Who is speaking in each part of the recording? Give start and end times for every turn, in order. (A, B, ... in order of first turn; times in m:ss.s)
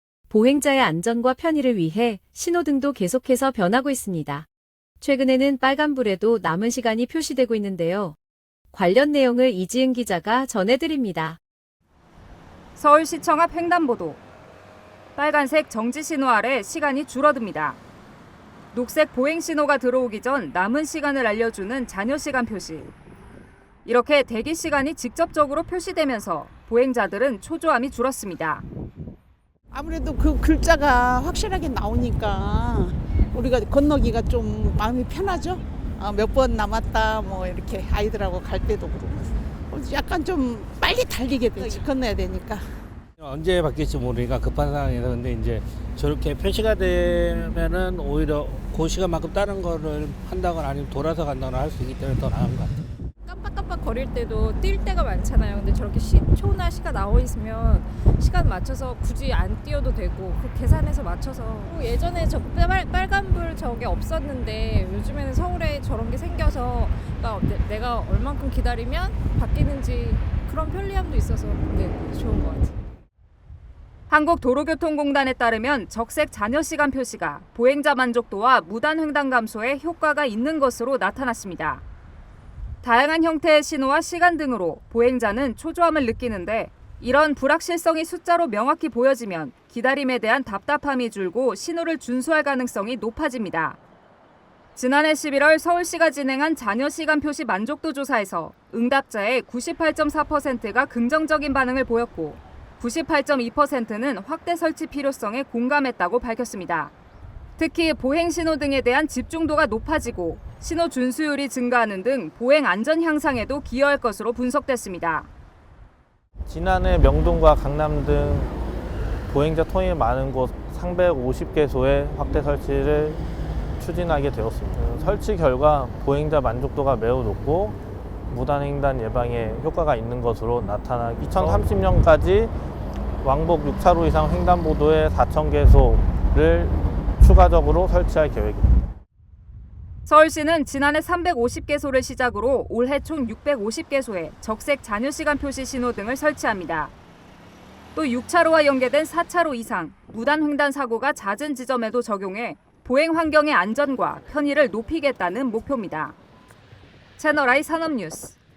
0:00.3-0:04.5 A
0:05.0-0:08.2 A
0:08.7-0:11.4 A
0:12.8-0:14.2 B
0:15.2-0:17.8 B
0:18.7-0:22.9 B
0:23.8-0:28.6 B
0:29.7-0:42.6 C
0:43.2-0:52.8 D
0:53.3-1:12.8 E
1:14.1-1:21.8 B
1:22.8-1:33.8 B
1:34.8-1:46.9 B
1:47.6-1:55.3 B
1:56.5-1:58.6 F
1:59.3-2:03.2 F
2:03.8-2:07.8 F
2:08.3-2:12.5 F
2:13.2-2:18.9 F
2:20.1-2:26.9 B
2:28.0-2:36.2 B
2:37.2-2:38.4 B